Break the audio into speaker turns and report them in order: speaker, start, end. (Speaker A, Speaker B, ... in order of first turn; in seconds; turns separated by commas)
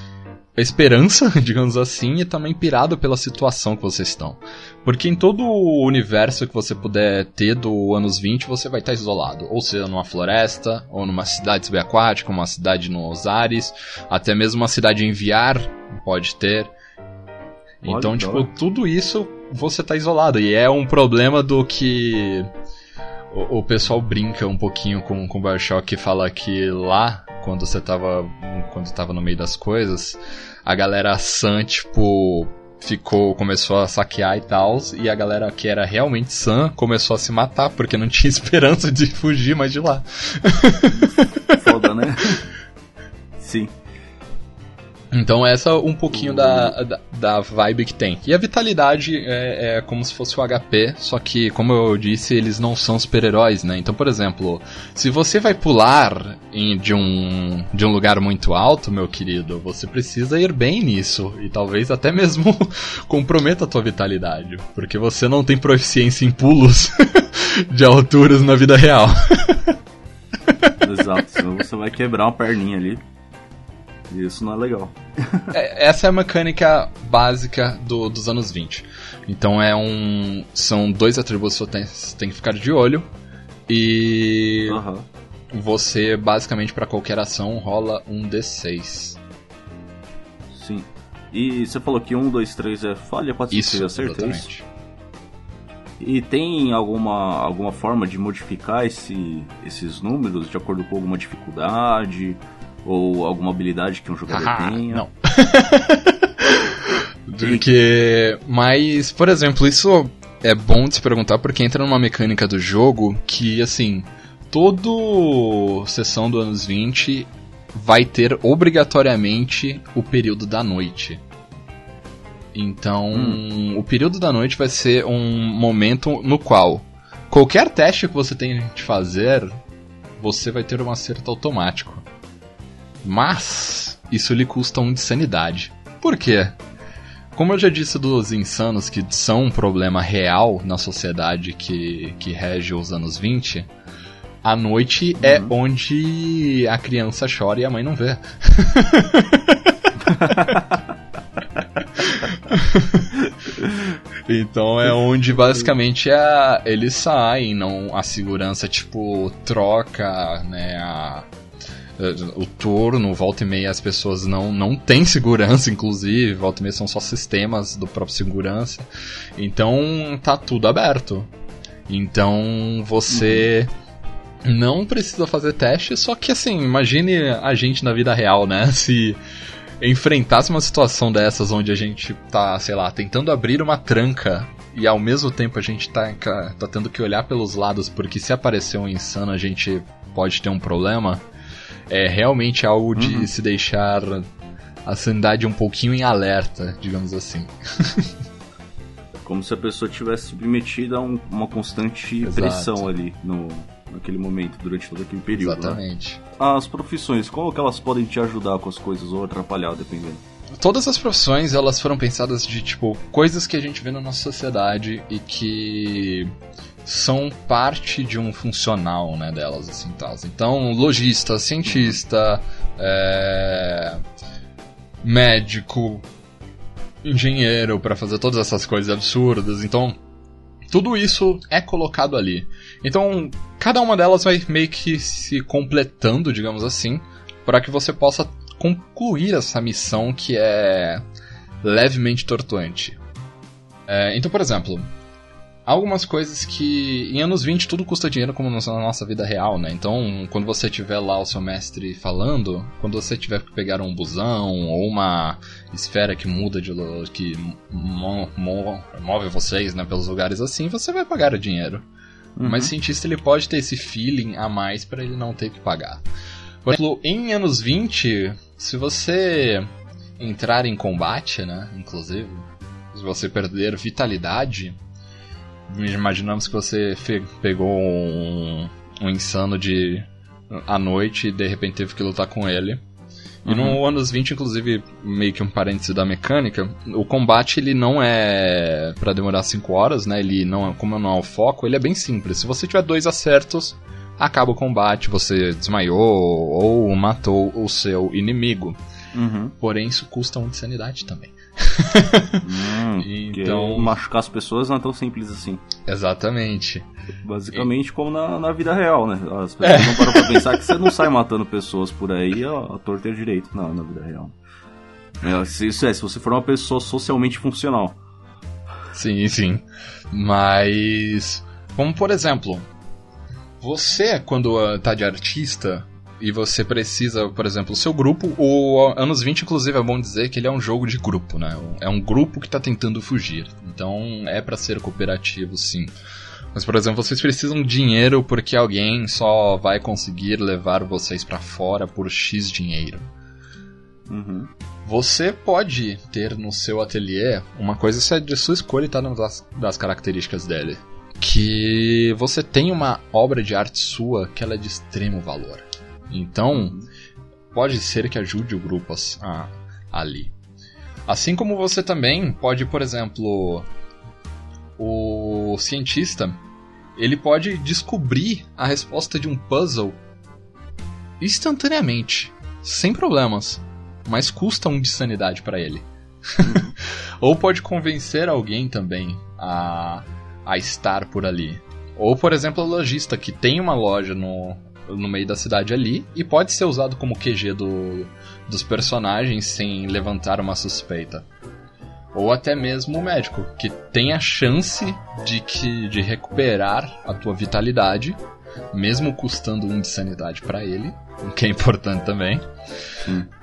Speaker A: 0.6-16.7, Speaker A: 17.8-22.5, Speaker B: 17.8-18.5, Speaker A: 23.3-41.6, Speaker B: 40.9-42.4, Speaker B: 43.4-43.8, Speaker A: 45.1-69.8, Speaker B: 46.1-46.8, Speaker A: 70.5-70.8, Speaker B: 70.8-73.0, Speaker B: 74.1-75.5, Speaker A: 75.5-83.1, Speaker A: 83.7-84.8, Speaker B: 84.7-85.1, Speaker A: 85.5-89.2, Speaker B: 90.5-94.5, Speaker A: 93.5-94.7, Speaker B: 96.0-105.0, Speaker A: 104.3-121.2, Speaker A: 122.5-129.5, Speaker B: 123.1-123.4, Speaker A: 130.2-132.0, Speaker A: 133.0-136.6, Speaker A: 137.3-143.7, Speaker A: 144.4-149.8, Speaker B: 145.2-145.5, Speaker B: 150.0-150.9, Speaker A: 150.3-150.6, Speaker A: 152.0-153.2, Speaker A: 154.3-161.3, Speaker A: 162.0-168.9, Speaker A: 169.4-171.3, Speaker A: 171.9-173.7, Speaker B: 173.1-173.5, Speaker A: 174.4-179.2, Speaker A: 179.8-191.2, Speaker A: 191.9-194.3, Speaker B: 193.0-193.3, Speaker A: 194.8-198.1, Speaker B: 199.2-205.8, Speaker A: 202.2-202.9, Speaker A: 205.3-206.2, Speaker B: 206.4-210.2, Speaker A: 210.6-216.3, Speaker A: 216.8-224.0, Speaker B: 221.7-222.0, Speaker A: 225.0-226.1, Speaker A: 227.0-230.0, Speaker A: 230.7-241.0, Speaker A: 241.6-243.0, Speaker A: 243.9-244.9, Speaker A: 245.7-261.9, Speaker B: 262.4-262.7, Speaker A: 262.4-266.0, Speaker A: 266.6-274.8, Speaker A: 275.7-282.8, Speaker A: 283.4-298.8, Speaker B: 283.5-283.8, Speaker B: 299.1-299.6, Speaker A: 299.6-302.4, Speaker B: 302.4-305.6, Speaker A: 303.0-303.9, Speaker A: 305.9-306.9, Speaker B: 307.2-314.4, Speaker A: 309.6-310.9, Speaker B: 315.2-318.0, Speaker A: 318.9-322.6, Speaker A: 323.6-335.9, Speaker A: 336.5-343.1, Speaker B: 344.1-344.5, Speaker A: 344.9-356.8, Speaker B: 356.5-356.9, Speaker A: 357.5-360.3, Speaker A: 361.1-363.7, Speaker A: 364.8-366.4, Speaker A: 367.0-370.0, Speaker A: 371.2-391.3, Speaker B: 376.4-376.7, Speaker A: 392.1-398.2, Speaker A: 398.7-402.4, Speaker B: 403.0-403.3